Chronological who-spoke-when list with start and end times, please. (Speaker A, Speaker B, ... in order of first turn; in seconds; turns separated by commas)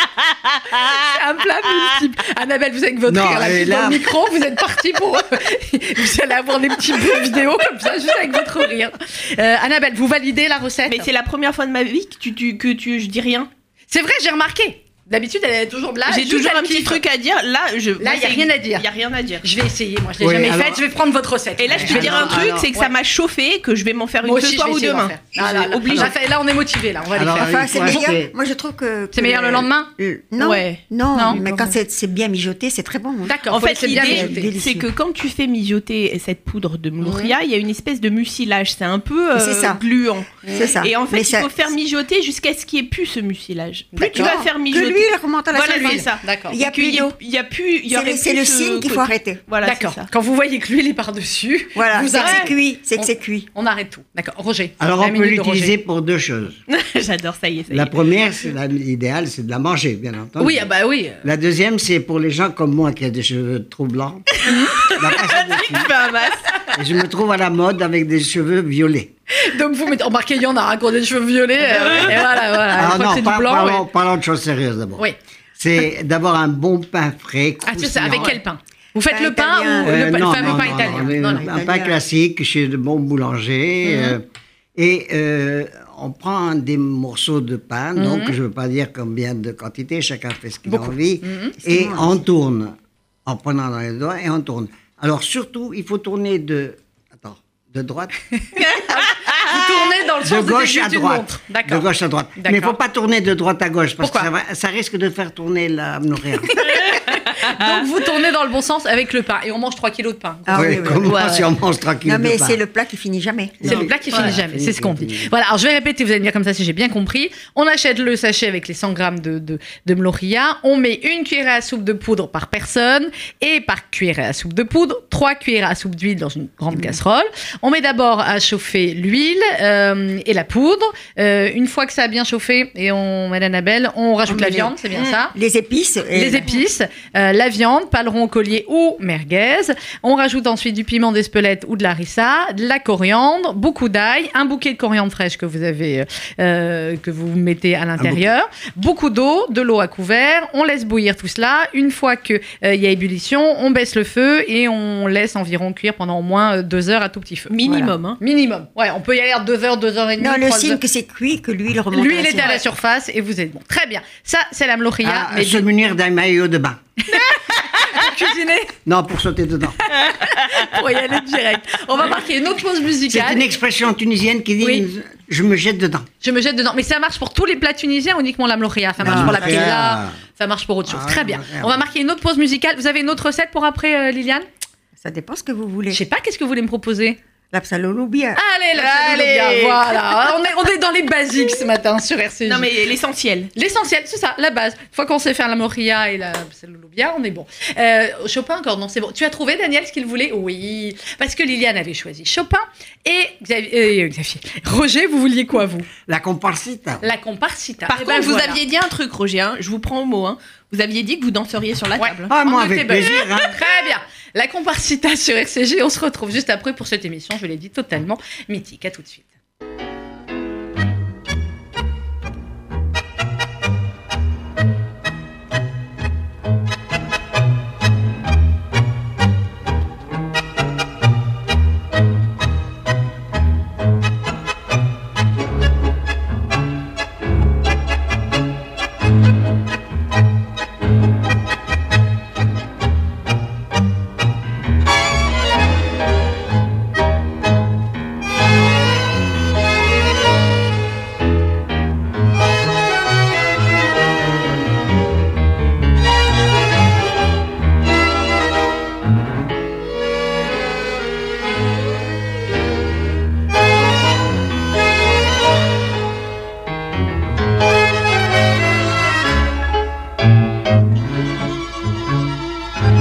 Speaker A: 0.7-11.1, Speaker B: 3.1-4.0, Speaker C: 10.9-13.5, Speaker A: 13.9-17.0, Speaker C: 16.1-19.5, Speaker A: 18.0-18.9, Speaker A: 19.4-22.9, Speaker B: 20.2-20.8, Speaker C: 21.6-26.1, Speaker B: 21.8-22.7, Speaker A: 24.2-28.1, Speaker B: 27.1-28.3, Speaker D: 27.4-34.9, Speaker A: 29.1-29.9, Speaker C: 30.4-31.8, Speaker A: 31.1-31.4, Speaker A: 33.2-34.5, Speaker C: 33.5-50.1, Speaker A: 37.0-37.3, Speaker D: 39.4-39.8, Speaker A: 40.5-40.7, Speaker D: 40.5-41.5, Speaker A: 43.9-44.4, Speaker D: 44.1-47.1, Speaker A: 45.8-46.6, Speaker D: 47.9-49.4, Speaker A: 49.6-55.7, Speaker D: 51.8-53.5, Speaker C: 52.2-52.5, Speaker B: 54.8-56.6, Speaker C: 56.7-58.0, Speaker B: 57.7-60.6, Speaker A: 60.4-61.2, Speaker B: 61.2-65.9, Speaker C: 64.4-66.8, Speaker B: 66.7-69.1, Speaker A: 69.3-73.8, Speaker B: 71.9-75.0, Speaker B: 75.6-78.4, Speaker A: 77.7-81.5, Speaker D: 79.1-82.0, Speaker B: 79.8-84.2, Speaker A: 83.9-84.2, Speaker B: 84.8-92.8, Speaker A: 88.0-88.4, Speaker A: 90.7-91.6, Speaker D: 91.6-92.2, Speaker B: 93.3-98.2, Speaker A: 98.5-102.8, Speaker B: 99.5-107.0, Speaker A: 104.0-104.3, Speaker A: 106.8-111.0, Speaker D: 110.5-111.4, Speaker B: 110.5-112.6, Speaker C: 111.0-111.5, Speaker D: 112.0-113.9, Speaker B: 113.6-115.3, Speaker A: 113.7-135.3, Speaker D: 126.7-127.0, Speaker D: 134.3-134.8, Speaker D: 135.3-136.6, Speaker A: 136.1-157.6, Speaker B: 148.0-148.3, Speaker C: 157.5-158.2, Speaker D: 157.7-157.9, Speaker A: 158.2-160.8, Speaker D: 160.2-162.6, Speaker A: 161.9-165.6, Speaker B: 165.0-167.2, Speaker A: 167.1-168.8, Speaker B: 168.8-169.8, Speaker A: 169.9-173.5, Speaker B: 173.1-176.1, Speaker A: 176.2-184.5, Speaker B: 179.0-180.2, Speaker D: 179.0-179.7, Speaker B: 180.9-181.8, Speaker D: 185.0-186.0, Speaker A: 185.9-187.2, Speaker D: 187.5-188.4, Speaker A: 188.4-192.7, Speaker C: 188.8-190.3, Speaker C: 192.4-193.5, Speaker A: 193.6-205.9, Speaker B: 206.1-207.0, Speaker A: 207.0-208.6, Speaker C: 207.9-212.3, Speaker A: 212.0-219.3, Speaker B: 212.3-213.6